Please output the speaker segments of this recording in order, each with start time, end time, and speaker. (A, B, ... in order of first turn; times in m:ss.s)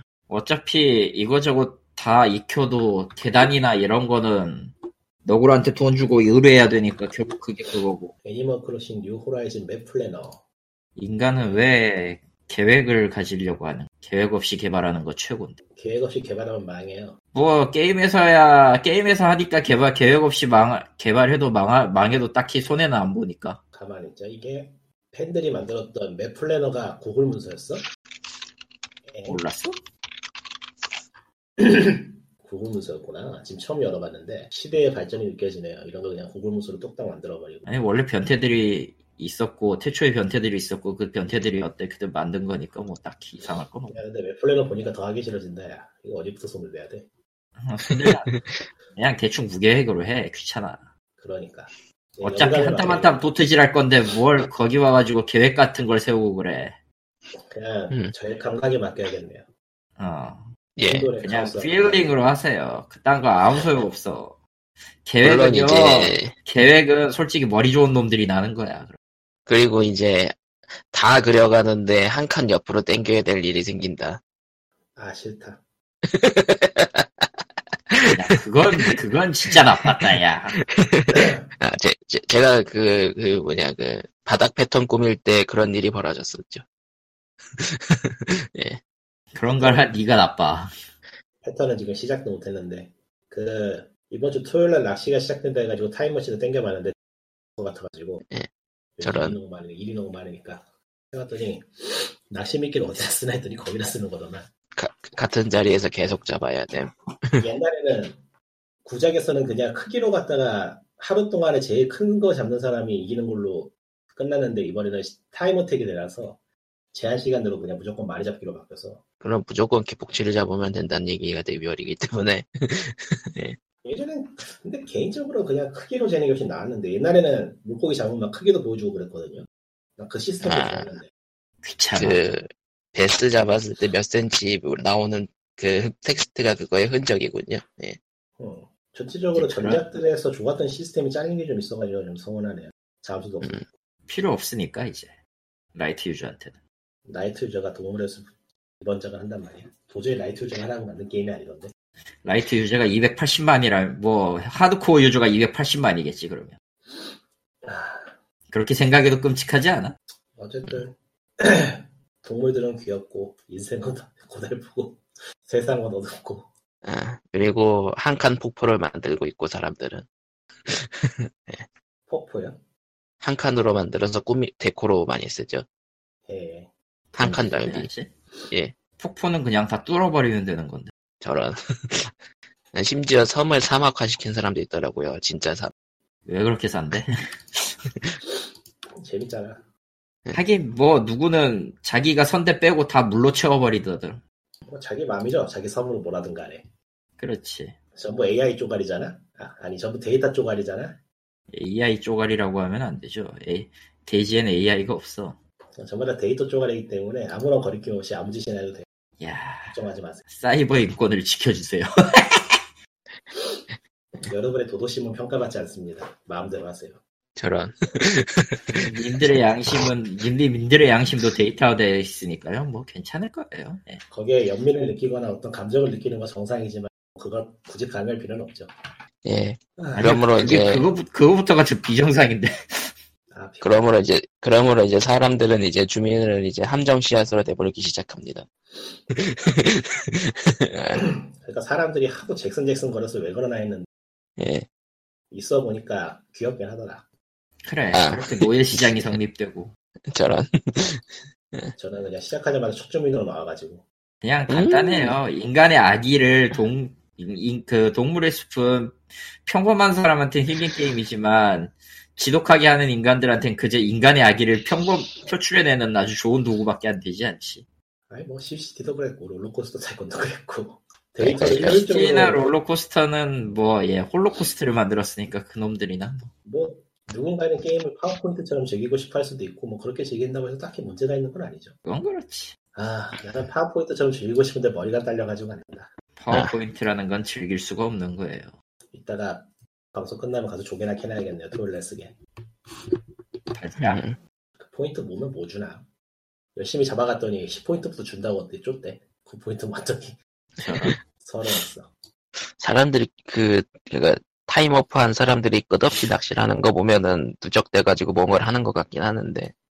0:00.3-0:08.1 A
0:08.2-0:10.4 B
0:11.0-0:15.6 A
0:15.8-0:17.2 B
0:17.3-0:23.6 A
0:23.7-0:27.8 B
0:29.1-0:29.4 B
0:29.3-0:29.8 A
0:31.6-0:37.7 B
0:37.7-0:44.0 A
0:43.9-0:47.1 B
0:47.6-0:50.9 A
0:47.9-0:48.7 C
0:51.2-0:53.2 B
0:52.2-0:56.8 A
0:57.4-0:59.5 B
1:00.0-1:00.5 A
1:00.8-1:01.1 C
1:00.8-1:02.2 B
1:01.2-1:04.4 A
1:05.0-1:09.0 A
1:05.2-1:06.3 C
1:09.5-1:14.2 C
1:15.0-1:15.6 B
1:16.1-1:17.3 C
1:17.9-1:19.0 C
1:18.1-1:20.6 A
1:20.0-1:26.6 C
1:21.1-1:21.4 B
1:27.6-1:28.8 C
1:29.3-1:30.7 A
1:29.6-1:29.9 B
1:31.4-1:37.0 B
1:37.6-1:38.2 B
1:39.0-1:44.5 B
1:39.0-1:39.4 C
1:44.8-1:47.5 C
1:47.4-1:48.2 B
1:48.8-1:56.4 B
1:56.9-1:59.0 B
1:59.2-2:03.6 C
2:03.8-2:11.1 B
2:10.4-2:11.0 C
2:11.6-2:12.2 A
2:11.9-2:18.0 C
2:18.4-2:23.7 B
2:19.4-2:19.8 A
2:24.1-2:25.2 A
2:25.8-2:26.6 A
2:27.1-2:31.7 B
2:32.2-2:36.6 A
2:36.9-2:38.2 B
2:38.5-2:40.0 A
2:40.4-2:46.5 B
2:46.8-2:50.1 C
2:50.7-2:51.7 C
2:52.1-2:52.6 B
2:53.2-2:55.6 C
2:56.3-2:56.7 B
2:57.1-2:58.1 A
2:57.2-2:57.9 C
2:59.0-3:00.9 A
3:01.2-3:02.2 C
3:02.7-3:05.7 C
3:06.3-3:07.4 A
3:09.0-3:09.6 B
3:10.3-3:14.2 A
3:14.7-3:16.7 B
3:17.2-3:17.8 A
3:18.0-3:21.0 B
3:21.5-3:25.4 A
3:25.8-3:28.9 B
3:29.2-3:32.6 A
3:29.7-3:30.2 B
3:34.3-3:37.0 B
3:37.4-3:39.9 C
3:38.8-3:44.0 A
3:44.1-3:48.7 B
3:49.2-3:50.9 C
3:49.8-3:50.2 B
3:50.0-3:52.9 A
3:53.3-3:53.9 B
3:53.6-3:58.5 C
3:59.1-4:01.1 C
4:01.0-4:03.9 B
4:04.4-4:04.7 C
4:05.3-4:07.1 B
4:07.6-4:09.7 A
4:07.9-4:09.2 C
4:10.1-4:11.7 C
4:11.8-4:13.8 B
4:14.2-4:27.7 A
4:14.5-4:15.2 C
4:28.1-4:32.5 B
4:31.2-4:31.8 C
4:31.5-4:36.3 A
4:36.4-4:41.8 B
4:41.9-4:42.6 A
4:42.7-4:45.9 B
4:46.2-4:48.5 A
4:48.9-4:52.2 B
4:53.5-4:54.0 A
4:53.9-4:54.2 C
4:54.6-4:55.9 B
4:56.6-5:00.2 B
5:00.6-5:01.0 A
5:01.1-5:01.9 B
5:02.6-5:09.5 C